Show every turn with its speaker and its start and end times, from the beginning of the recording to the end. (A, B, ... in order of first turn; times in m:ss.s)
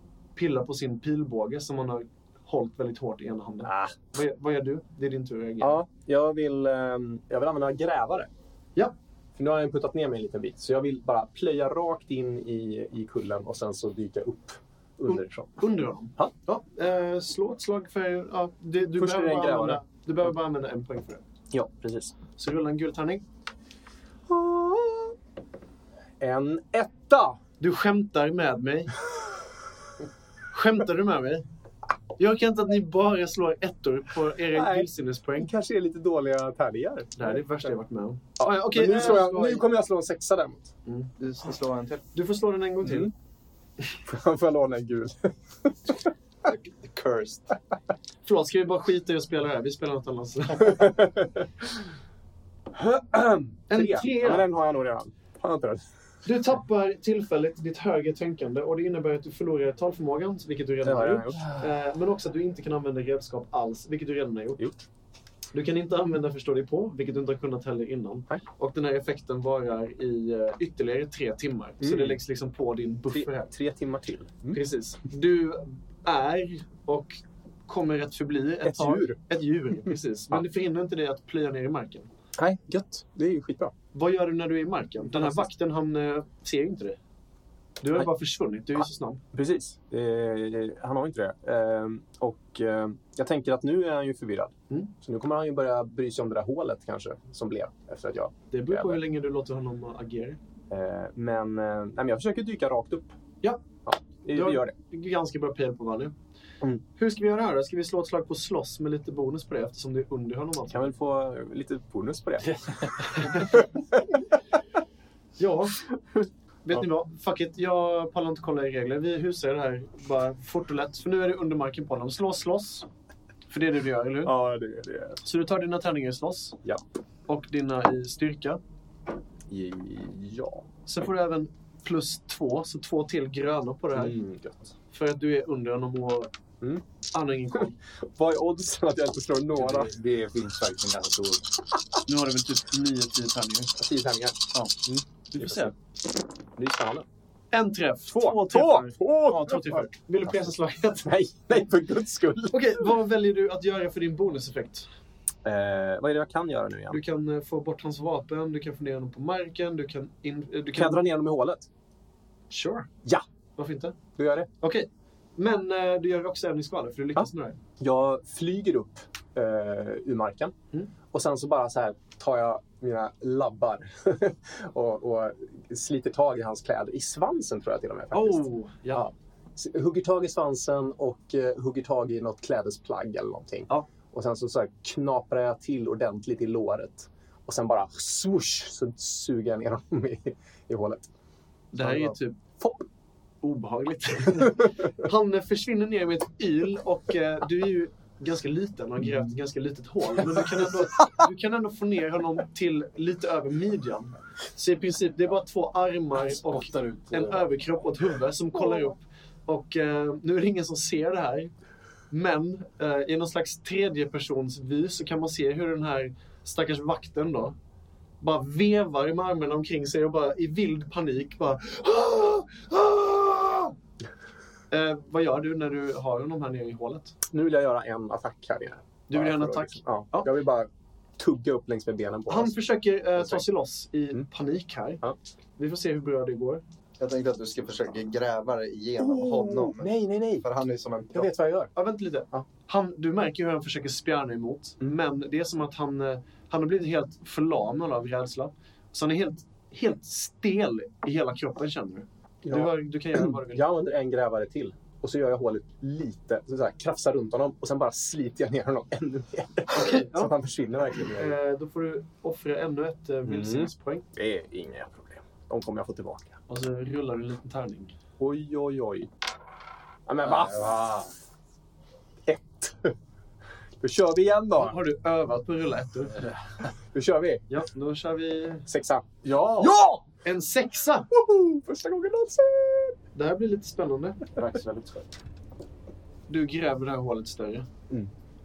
0:00.4-0:05.8 A
0:03.6-0:04.0 B
0:05.6-0:08.3 B
0:09.4-0:15.5 B
0:15.1-0:21.2 A
0:19.0-0:19.8 B
0:21.5-0:22.2 B
0:22.4-0:23.2 A
0:24.3-0:25.1 B
0:26.2-0:27.4 B
0:27.6-0:29.0 A
0:30.5-0:31.5 A
0:32.2-0:35.5 A
0:34.5-0:37.4 B
0:37.2-0:39.6 A
0:38.4-0:40.7 B
0:40.9-0:41.1 A
0:41.2-0:42.1 C
0:42.1-0:43.1 A
0:42.8-0:43.1 B
0:44.0-0:46.1 B
0:46.4-0:47.5 C
0:48.2-0:51.1 A
0:50.6-0:51.7 B
0:52.7-0:55.8 B
0:53.7-0:54.5 A
0:56.2-1:04.7 A
1:00.8-1:01.7 B
1:05.5-1:13.5 A
1:11.8-1:12.2 B
1:13.1-1:14.6 B
1:14.5-1:22.1 A
1:18.6-1:19.2 B
1:22.4-1:23.7 B
1:23.9-1:27.0 A
1:25.1-1:25.5 B
1:27.8-1:29.2 A
1:29.3-1:39.0 B
1:38.5-1:40.4 A
1:40.7-1:43.2 B
1:43.9-1:44.8 B
1:44.3-1:46.1 A
1:47.0-1:50.9 A
1:50.7-1:54.3 B
1:53.2-1:53.6 A
1:55.4-1:55.8 A
1:56.2-1:56.8 B
1:56.6-2:02.9 A
2:03.5-2:04.4 A
2:04.2-2:05.2 B
2:05.2-2:06.6 A
2:07.3-2:08.6 A
2:09.5-2:10.6 B
2:10.9-2:14.2 A
2:14.0-2:14.7 B
2:14.9-2:16.3 A
2:17.1-2:17.8 A
2:18.0-2:19.9 B
2:19.6-2:21.5 D
2:22.1-2:23.7 A
2:23.8-2:25.7 B
2:24.5-2:25.7 A
2:26.6-2:27.1 B
2:27.5-2:31.6 A
2:28.1-2:30.5 B
2:31.0-2:32.9 B
2:32.5-2:34.9 A
2:35.4-2:37.0 B
2:36.9-2:41.0 A
2:40.7-2:41.7 B
2:42.5-2:42.9 A
2:43.6-2:44.0 A
2:44.2-2:44.5 B
2:44.6-2:47.6 A
2:47.2-2:50.5 B
2:51.1-3:11.1 B
2:58.1-2:59.1 A
3:11.7-3:12.4 A
3:11.8-3:12.8 B
3:13.4-3:31.5 A
3:26.5-3:27.5 D
3:32.1-3:37.6 A
3:38.2-3:43.8 A
3:44.7-3:47.2 A
3:47.3-3:52.6 B
3:49.1-3:50.3 A
3:52.3-3:55.0 A
3:53.2-3:53.4 B
3:55.6-3:56.6 A
3:57.0-4:01.3 C
3:59.0-4:00.5 B
4:01.1-4:01.7 B
4:01.8-4:13.7 A
4:12.4-4:21.4 B
4:19.7-4:20.3 A
4:21.1-4:24.1 A
4:23.3-4:26.4 B
4:26.5-4:28.0 A
4:28.2-4:29.1 B
4:30.1-4:31.0 B
4:30.3-4:30.9 D
4:32.3-4:33.0 B
4:33.8-4:34.8 B
4:34.6-4:36.2 A
4:36.9-4:37.5 B
4:37.5-4:38.7 A
4:38.7-4:40.0 B
4:40.2-4:41.1 A
4:41.1-4:43.0 B
4:43.2-4:44.2 A
4:44.4-4:45.1 B
4:46.3-4:47.7 A